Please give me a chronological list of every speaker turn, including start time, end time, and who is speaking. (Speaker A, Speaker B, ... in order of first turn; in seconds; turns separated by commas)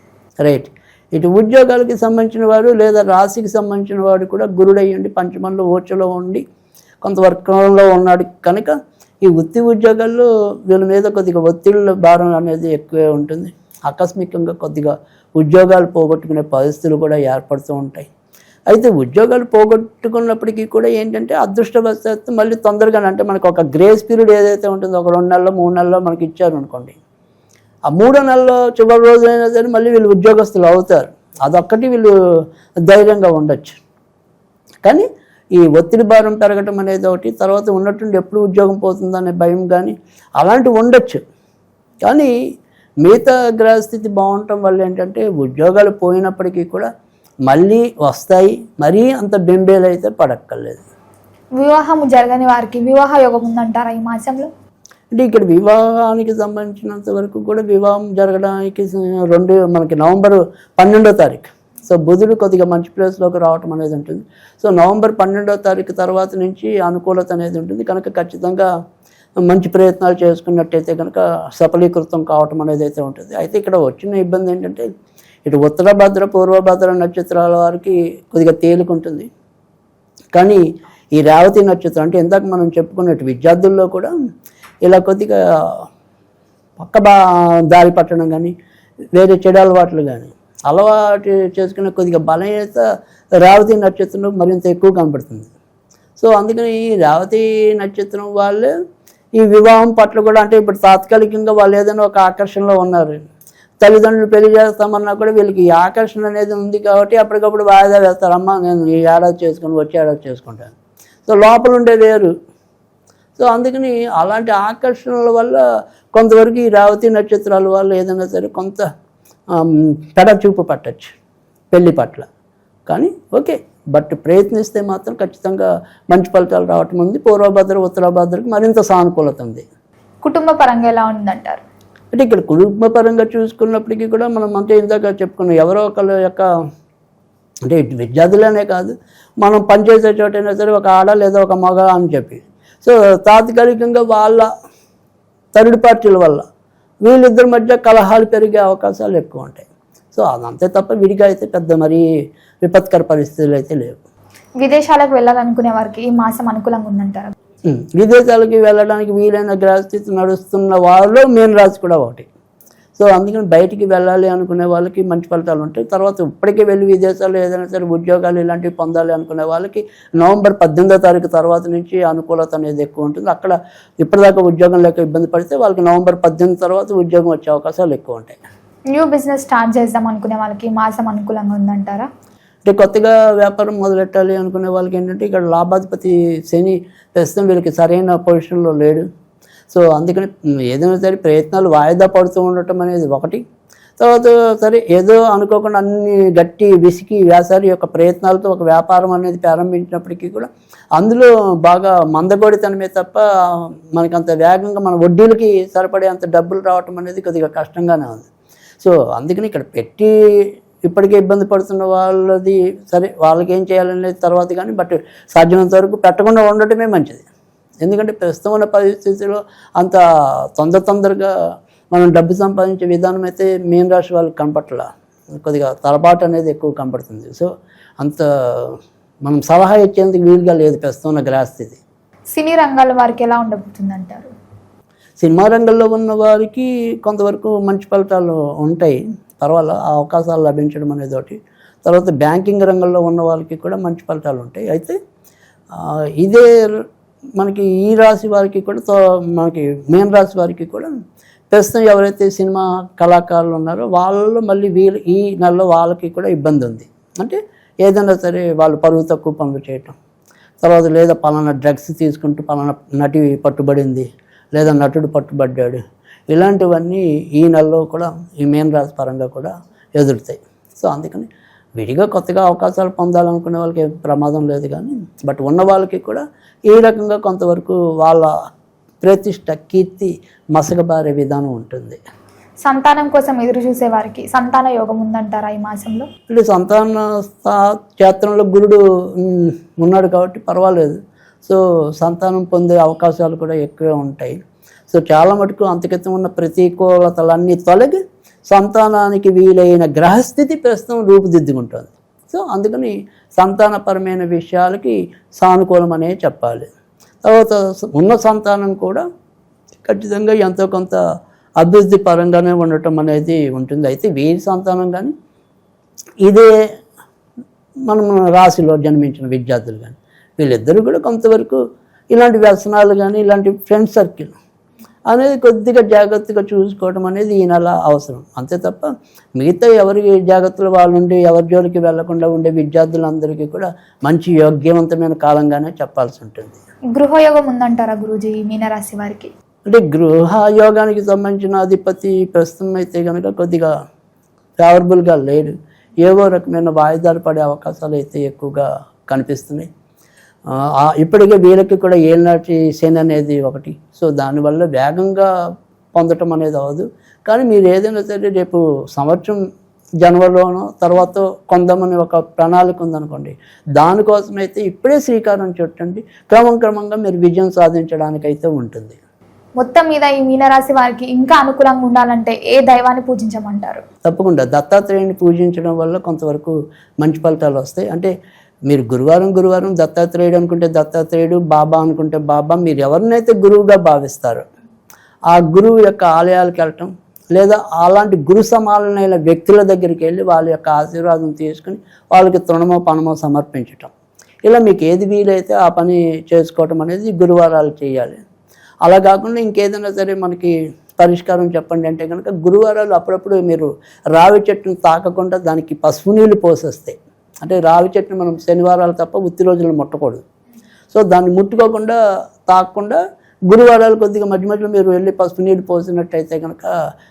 Speaker A: 0.4-6.4, Speaker A: 7.0-18.1, Speaker A: 18.7-27.0, Speaker A: 27.9-32.1, Speaker A: 32.9-33.8, Speaker A: 34.9-41.2, Speaker A: 42.0-42.3, Speaker A: 43.0-46.9, Speaker A: 47.5-50.8, Speaker B: 51.6-54.5, Speaker A: 55.1-68.7, Speaker A: 69.4-74.9, Speaker A: 75.5-79.3, Speaker A: 80.3-80.6, Speaker A: 81.2-84.1, Speaker A: 84.8-85.8, Speaker A: 86.8-87.2, Speaker A: 87.7-88.5, Speaker A: 89.2-92.8, Speaker A: 93.4-95.5, Speaker A: 96.2-98.7, Speaker A: 99.4-103.2, Speaker A: 103.8-110.7, Speaker A: 111.3-112.3, Speaker A: 113.4-115.6, Speaker A: 116.2-118.9, Speaker A: 119.5-121.1, Speaker A: 121.7-122.2, Speaker A: 122.9-129.7, Speaker B: 130.2-131.6, Speaker A: 132.1-136.5, Speaker A: 137.7-144.5, Speaker A: 145.6-146.4, Speaker A: 147.0-152.0, Speaker A: 152.6-154.0, Speaker B: 154.6-157.3, Speaker A: 157.7-162.3, Speaker A: 163.0-178.4, Speaker B: 178.9-182.1, Speaker A: 182.7-189.1, Speaker A: 189.7-193.4, Speaker A: 194.0-208.3, Speaker A: 208.8-217.2, Speaker A: 217.8-220.0, Speaker A: 220.6-221.3, Speaker A: 221.9-227.5, Speaker A: 228.0-231.8, Speaker B: 232.3-234.3, Speaker A: 235.2-245.0, Speaker A: 245.7-246.8, Speaker A: 247.4-250.9, Speaker A: 251.5-259.9, Speaker A: 260.6-265.8, Speaker A: 266.3-278.3, Speaker A: 279.0-282.0, Speaker B: 282.6-286.1, Speaker A: 286.3-294.4, Speaker A: 294.9-306.7, Speaker A: 307.2-309.0, Speaker A: 309.8-311.0, Speaker A: 311.6-315.1, Speaker A: 317.9-321.6, Speaker A: 322.1-324.3, Speaker A: 325.1-336.6, Speaker B: 336.9-339.3, Speaker A: 339.7-343.7, Speaker A: 344.6-349.7, Speaker A: 350.5-355.3, Speaker A: 355.9-359.4, Speaker A: 360.0-369.0, Speaker B: 369.6-373.8, Speaker A: 374.1-378.1, Speaker A: 378.7-384.4, Speaker A: 385.3-393.9, Speaker A: 394.5-398.2, Speaker A: 398.9-410.2, Speaker A: 410.9-416.7